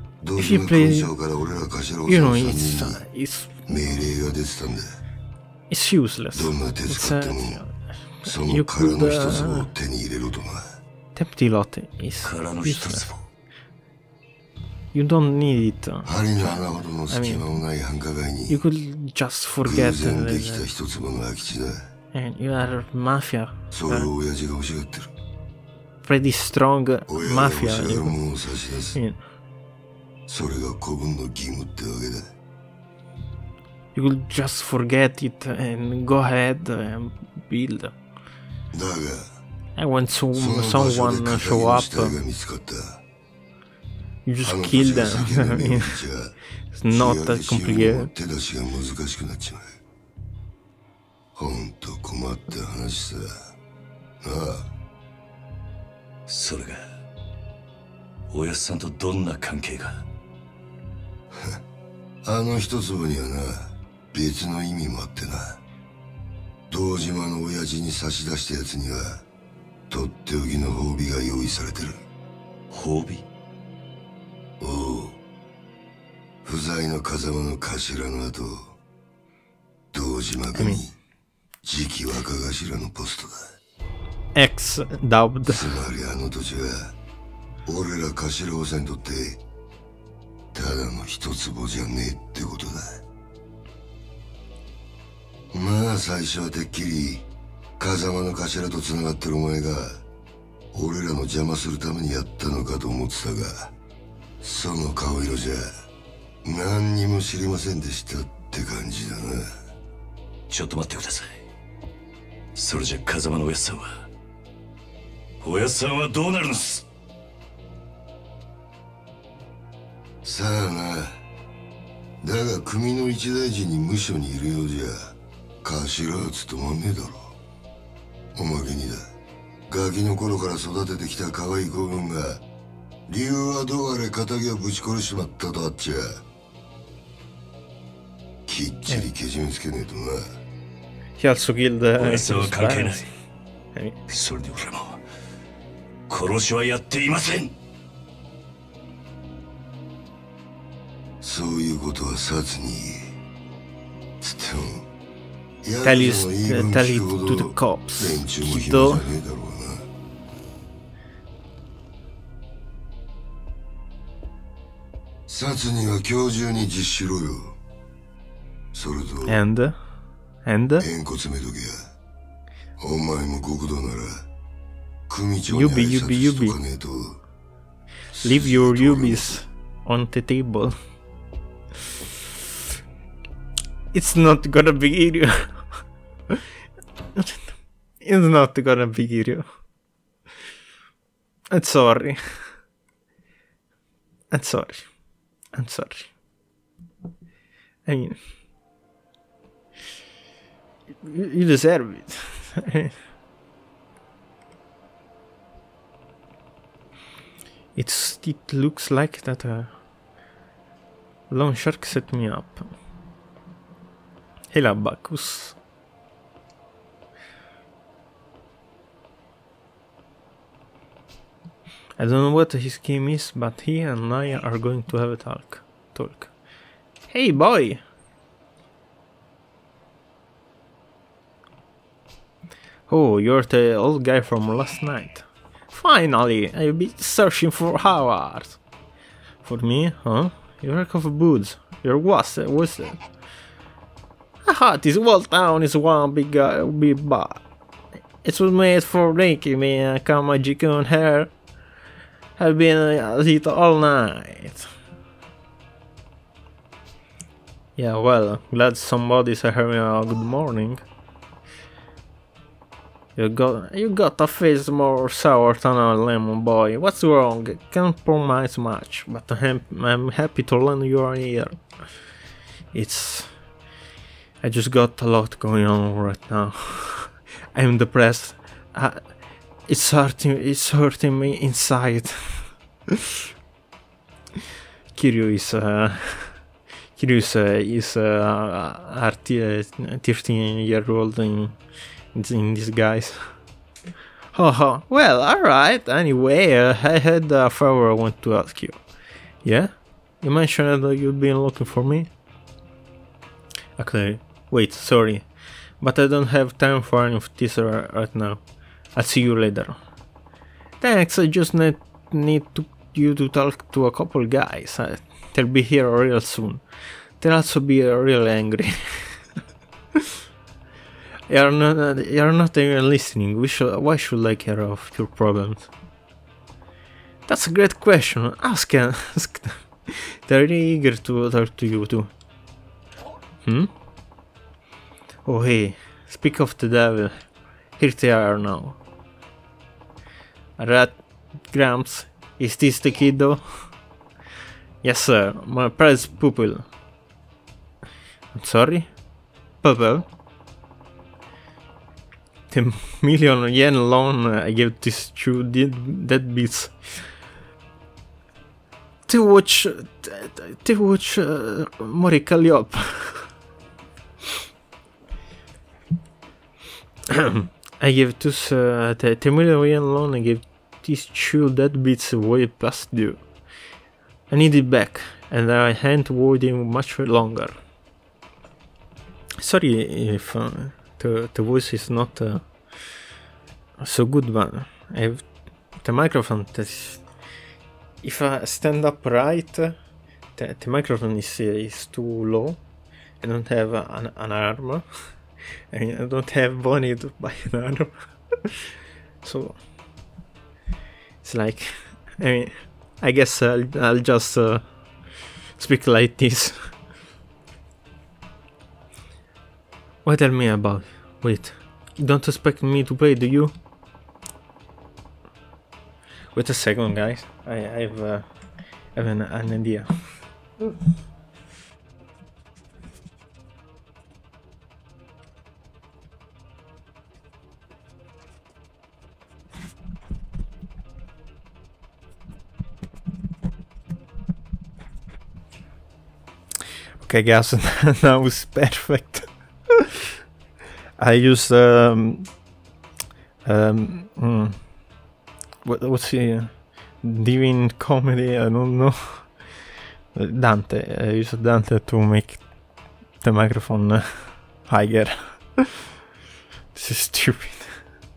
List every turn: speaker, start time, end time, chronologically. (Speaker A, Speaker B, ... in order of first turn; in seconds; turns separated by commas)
Speaker A: 0.2-3.0, Speaker B: 0.4-1.1, Speaker B: 2.0-3.5, Speaker A: 3.7-4.8, Speaker B: 5.7-9.7, Speaker A: 6.3-7.6, Speaker A: 8.2-10.7, Speaker B: 11.1-13.1, Speaker C: 12.2-13.2, Speaker B: 14.9-16.6, Speaker A: 16.1-18.6, Speaker B: 17.1-17.4, Speaker B: 18.5-20.6, Speaker A: 19.6-21.8, Speaker B: 22.1-24.1, Speaker A: 23.7-25.1, Speaker B: 26.0-28.2, Speaker A: 27.1-29.0, Speaker B: 28.9-29.2, Speaker A: 30.3-32.3, Speaker B: 34.0-37.9, Speaker A: 38.7-39.2, Speaker B: 39.8-42.1, Speaker A: 40.3-43.0, Speaker B: 44.3-46.0, Speaker A: 44.4-46.3, Speaker B: 46.7-48.1, Speaker A: 46.9-49.7, Speaker A: 51.4-53.3, Speaker A: 54.2-54.7, Speaker C: 56.3-56.8, Speaker C: 58.3-60.0, Speaker A: 62.2-65.6, Speaker A: 66.7-69.2, Speaker A: 69.9-72.0, Speaker C: 72.7-73.2, Speaker A: 74.6-75.2, Speaker A: 76.4-78.7, Speaker A: 79.9-80.9, Speaker B: 80.5-80.8, Speaker A: 81.7-83.4, Speaker B: 84.4-85.8, Speaker A: 85.5-86.9, Speaker A: 87.7-89.4, Speaker A: 90.5-93.0, Speaker A: 95.5-97.2, Speaker A: 97.8-100.0, Speaker A: 100.7-103.7, Speaker A: 104.4-105.7, Speaker A: 106.5-109.5, Speaker C: 110.5-111.3, Speaker C: 112.5-114.0, Speaker C: 115.4-116.8, Speaker A: 120.2-121.1, Speaker A: 122.2-127.3, Speaker A: 128.3-129.0, Speaker A: 129.7-132.4, Speaker A: 133.1-136.2, Speaker A: 138.5-140.2, Speaker B: 141.2-143.1, Speaker C: 142.0-143.1, Speaker C: 144.1-145.0, Speaker C: 146.1-147.5, Speaker A: 151.2-153.1, Speaker A: 154.2-154.8, Speaker A: 155.6-159.8, Speaker B: 155.8-159.1, Speaker A: 165.3-167.6, Speaker A: 168.7-169.4, Speaker B: 169.3-169.8, Speaker B: 170.4-170.8, Speaker A: 170.8-171.8, Speaker A: 172.8-174.2, Speaker A: 175.1-177.2, Speaker B: 175.5-176.6, Speaker A: 178.1-179.4, Speaker B: 178.2-180.7, Speaker B: 183.9-185.6, Speaker B: 188.0-189.4, Speaker B: 191.5-192.2, Speaker B: 194.3-194.9, Speaker B: 195.5-196.1, Speaker B: 197.9-198.2, Speaker B: 201.0-202.9, Speaker B: 207.8-209.7, Speaker B: 211.3-212.7, Speaker B: 214.5-215.6, Speaker B: 222.0-226.3, Speaker B: 227.1-227.8, Speaker B: 232.9-238.6, Speaker B: 239.4-243.0, Speaker B: 244.4-247.4, Speaker B: 248.2-251.3, Speaker B: 252.4-254.7, Speaker B: 257.8-260.8, Speaker B: 263.2-271.6, Speaker B: 272.7-273.3, Speaker B: 274.4-279.0, Speaker B: 279.7-282.5, Speaker B: 284.9-286.4, Speaker B: 287.0-291.6, Speaker B: 292.1-293.2, Speaker B: 294.3-298.8, Speaker B: 299.4-302.1, Speaker B: 303.8-305.3, Speaker B: 305.8-308.4, Speaker B: 308.9-309.8, Speaker B: 310.8-316.6, Speaker B: 317.2-319.2, Speaker B: 321.3-325.7, Speaker B: 327.3-332.1, Speaker B: 333.4-333.7, Speaker B: 335.2-337.2, Speaker B: 337.8-338.8, Speaker B: 340.6-341.0, Speaker B: 341.5-343.7, Speaker B: 344.8-346.7, Speaker B: 348.3-348.9, Speaker B: 349.6-350.1, Speaker B: 352.5-357.0, Speaker B: 359.1-363.3, Speaker B: 367.1-373.2, Speaker B: 374.3-377.6, Speaker B: 379.4-382.5, Speaker B: 383.8-385.2, Speaker B: 385.8-387.0, Speaker B: 388.0-389.7, Speaker B: 390.4-392.6, Speaker B: 393.2-394.9, Speaker B: 395.7-398.6, Speaker B: 399.2-399.6, Speaker B: 401.2-404.6, Speaker B: 405.6-406.7, Speaker B: 410.1-413.5, Speaker B: 416.3-418.3, Speaker B: 418.9-419.9, Speaker B: 437.0-439.3, Speaker B: 441.0-442.3, Speaker B: 443.4-444.6, Speaker B: 445.6-449.3, Speaker B: 450.1-452.4, Speaker B: 453.2-455.7, Speaker B: 456.7-457.8